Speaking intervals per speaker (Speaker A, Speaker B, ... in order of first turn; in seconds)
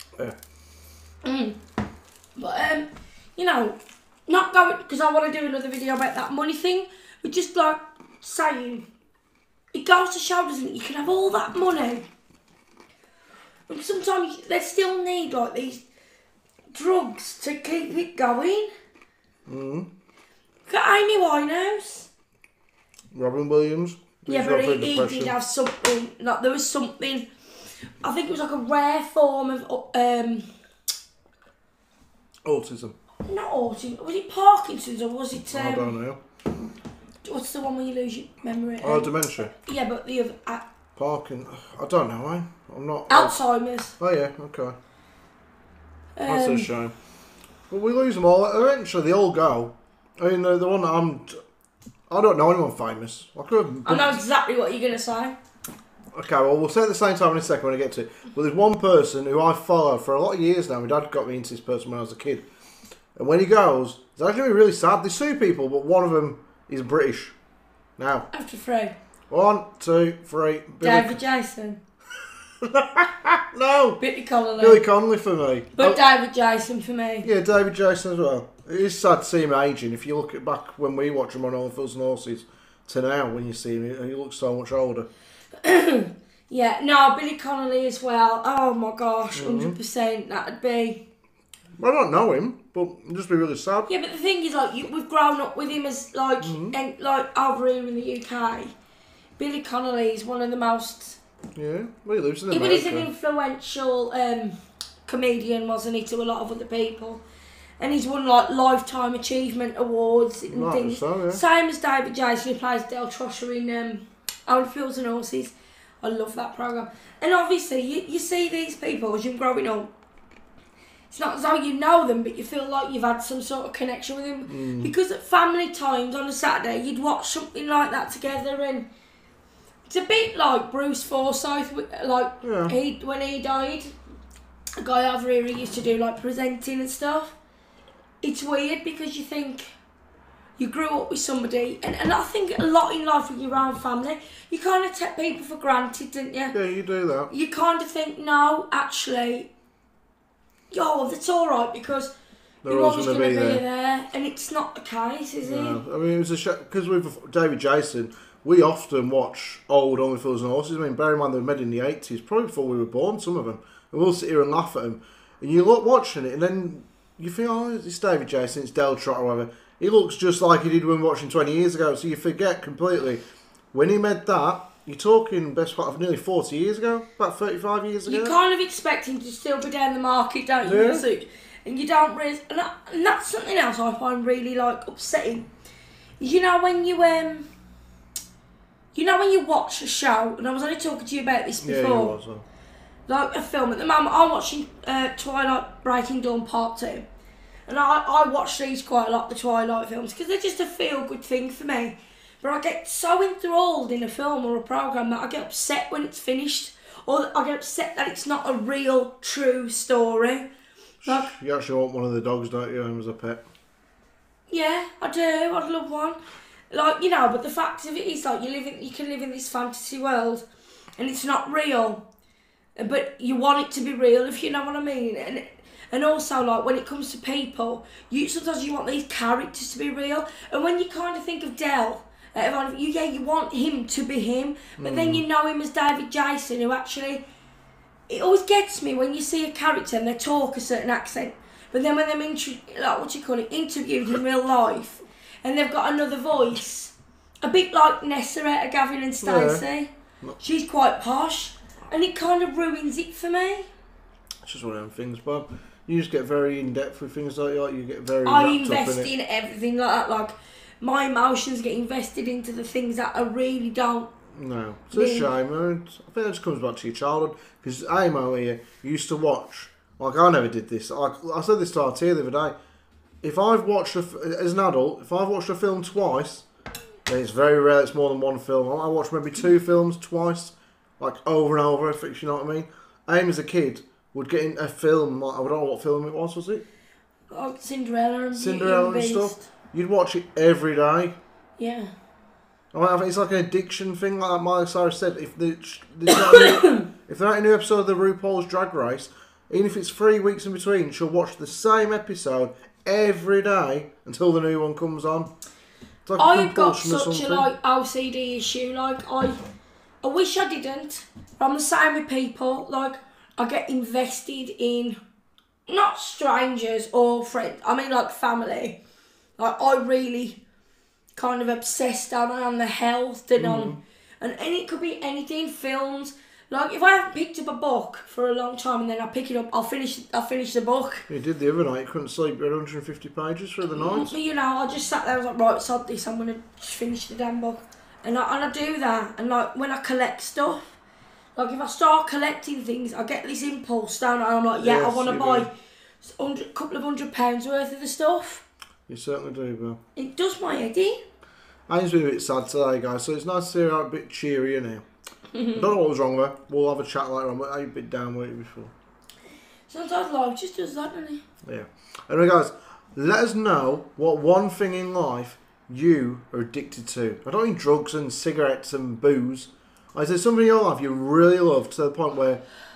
Speaker A: 1.2-1.6, 2.4-8.9, 9.7-12.1, 13.7-15.8, 16.7-18.7, 20.7-22.1, 24.3-27.3, 27.8-30.5, 33.2-36.0, 37.2-40.6, 43.1-44.0, 46.2-46.7, 53.9-55.4, 68.3-69.0, 70.8-71.8, 74.0-74.8, 75.8-77.3, 85.6-91.0, 93.9-98.7, 99.4-101.2, 102.5-107.2, 107.8-119.9, 121.1-128.9, 129.9-134.0, 134.8-137.4, 138.2-139.7, 140.6-146.6, 147.3-149.5, 150.7-152.1, 152.7-155.8, 178.1-185.5, 186.2-187.5, 188.9-192.2, 193.1-197.1, 197.7-210.5, 211.1-211.3, 214.5-216.2, 216.7-220.5, 221.0-222.1, 222.8-237.2, 238.1-253.7, 258.2-264.1, 264.9-265.3, 287.3-289.4, 291.6-291.9, 296.1-296.9, 306.2-309.4, 310.0-315.0, 315.7-318.8, 319.4-320.4, 321.1-331.1, 333.7-340.8, 341.4-348.4, 349.9-351.0, 355.3-355.6, 359.7-361.2
Speaker B: 19.5-19.9, 23.1-25.4, 32.5-33.0, 35.5-36.2, 38.8-39.5, 41.0-43.4, 44.0-44.8, 46.2-46.9, 47.7-51.4, 52.1-54.2, 56.1-62.5, 63.2-67.3, 68.0-68.3, 69.3-71.2, 72.6-74.0, 74.6-76.0, 77.2-85.1, 89.3-89.8, 91.8-93.9, 96.4-96.8, 101.6-103.1, 110.5-111.4, 124.5-124.9, 132.4-132.8, 146.5-147.3, 152.7-153.6, 155.4-173.2, 173.7-178.4, 180.7-181.1, 191.6-192.4, 211.0-213.4, 234.8-235.2, 249.2-249.7, 254.4-259.1, 264.3-272.6, 273.2-276.5, 277.1-286.6, 288.4-291.2, 292.7-305.3, 306.1-307.5, 323.4-323.8, 331.1-334.1, 344.6-345.5, 348.9-349.8, 351.7-354.9, 355.5-358.7, 361.5-372.4